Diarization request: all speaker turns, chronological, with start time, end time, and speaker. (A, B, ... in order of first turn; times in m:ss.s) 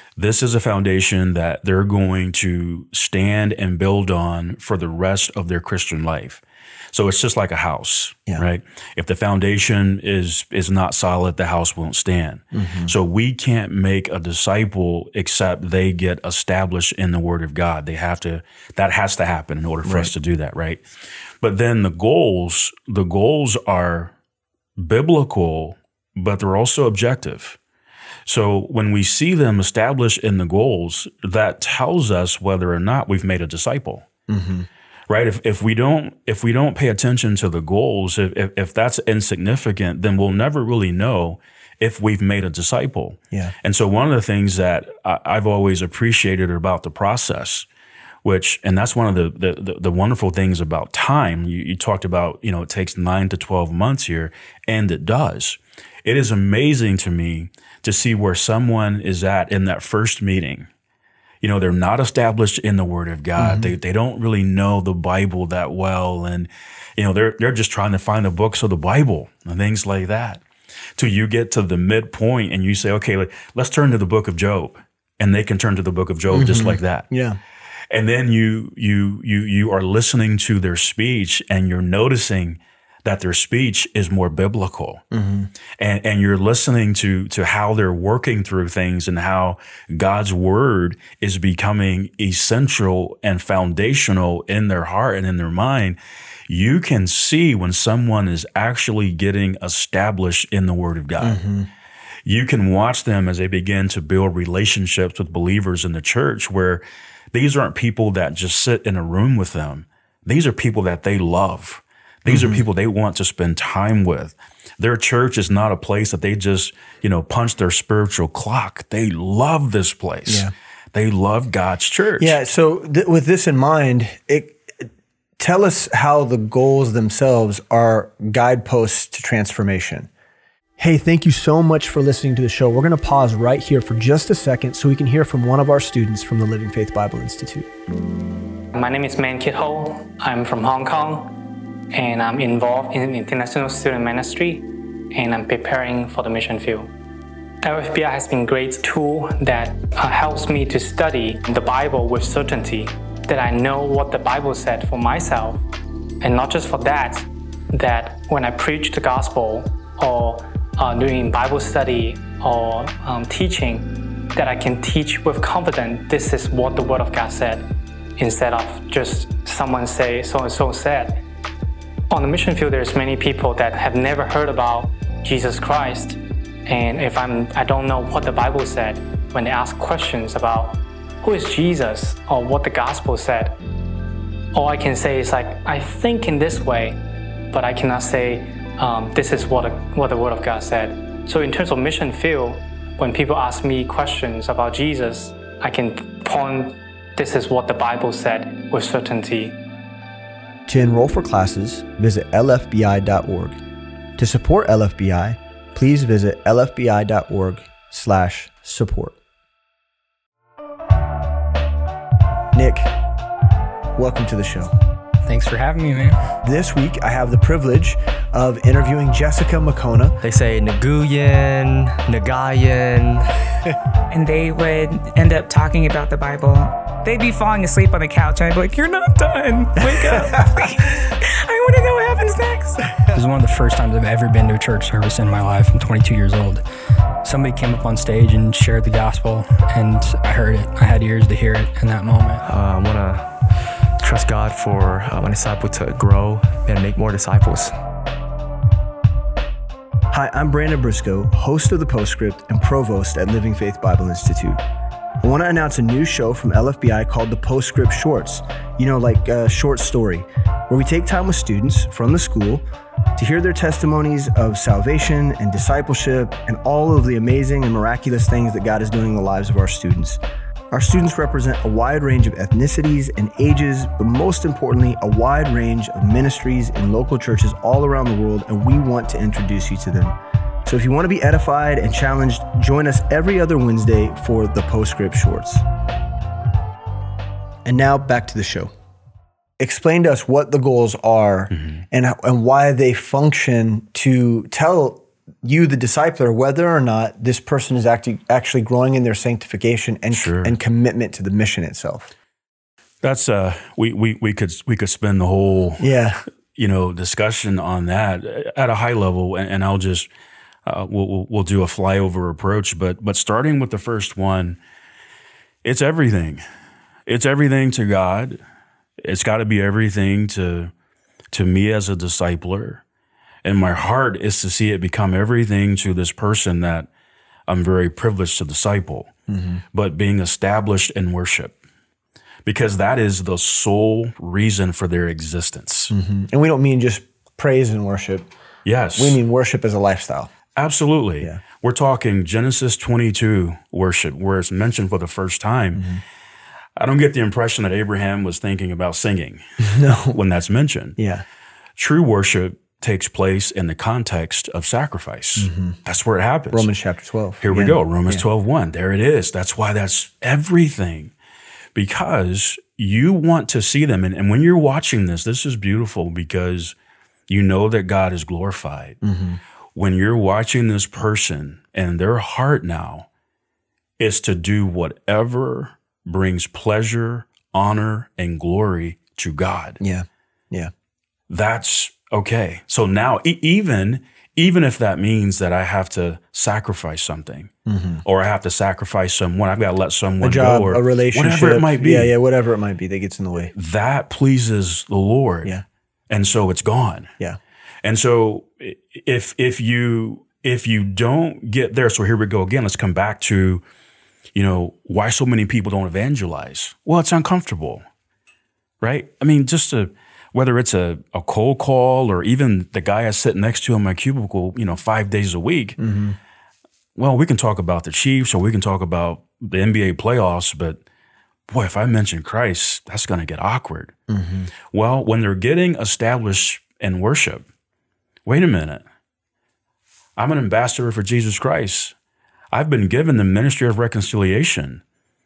0:00.2-0:20.8 A
0:12.5-0:12.9 B
0:19.8-0:20.1 B
0:21.4-0:24.1 A
0:24.8-0:27.6 A
0:28.2-0:34.0 A
0:34.3-0:34.7 B
0:35.1-0:47.7 A
0:48.2-1:00.7 A
1:01.4-1:10.4 A
1:03.4-1:03.7 B
1:11.0-1:17.1 A
1:16.3-1:17.4 B
1:17.9-1:25.0 A
1:25.1-1:25.5 B
1:25.7-1:41.4 A
1:41.2-1:41.7 B
1:42.2-2:02.4 A
1:52.3-1:52.6 B
2:00.3-2:00.5 B
2:02.2-2:10.1 B
2:10.8-2:17.7 B
2:18.7-2:21.3 C
2:21.9-2:26.9 C
2:27.6-2:35.6 C
2:36.2-2:47.6 C
2:48.2-2:51.2 C
2:52.1-3:03.6 C
3:04.5-3:07.0 C
3:07.5-3:19.6 C
3:20.7-3:23.6 B
3:24.2-3:29.2 B
3:32.5-3:32.9 B
3:34.0-3:34.7 B
3:35.2-3:36.2 D
3:36.4-3:40.2 B
3:40.2-3:43.3 E
3:44.1-3:53.0 F
3:53.1-3:56.6 D
3:57.2-4:02.4 D
4:02.4-4:07.7 E
4:10.1-4:14.6 B
4:15.2-4:22.6 B
4:23.2-4:45.6 B
4:47.6-4:48.7 B
4:49.6-5:02.1 B
4:51.5-4:51.8 A
5:00.1-5:00.6 A
5:03.0-5:06.0 A
5:05.8-5:06.2 B
5:06.5-5:10.1 A
5:10.6-5:14.6 A
5:15.6-5:16.4 A
5:17.0-5:18.4 A
5:19.0-5:20.7 A
5:21.3-5:22.8 A
5:23.4-5:26.9 A
5:27.5-5:29.1 A
5:29.3-5:29.6 B
5:29.7-5:31.6 A
5:32.4-5:35.9 A
5:35.9-5:38.3 B
5:38.6-5:39.2 A
5:39.0-5:40.3 B
5:40.5-5:45.9 A
5:45.7-5:46.0 B
5:46.8-5:51.0 A
5:49.6-5:50.2 B
5:51.0-5:51.2 B
5:51.8-5:56.7 A
5:55.4-5:55.8 B
5:56.5-5:58.2 B
5:57.4-6:01.1 A
6:01.7-6:06.8 A
6:07.3-6:09.0 A
6:09.0-6:09.4 B
6:09.7-6:13.1 A
6:14.0-6:19.8 A
6:19.8-6:20.7 B
6:21.3-6:27.5 A
6:27.6-6:28.0 B
6:28.0-6:32.1 A
6:30.2-6:33.5 B
6:33.5-6:35.6 A
6:36.1-6:37.1 A
6:37.8-6:43.6 A
6:44.3-6:47.8 A
6:48.8-6:55.8 A
6:55.8-6:56.2 B
6:57.0-7:00.8 A
7:01.5-7:03.9 A
7:04.1-7:04.5 B
7:04.7-7:07.4 A
7:08.2-7:08.8 A
7:10.2-7:11.9 A
7:12.5-7:14.8 A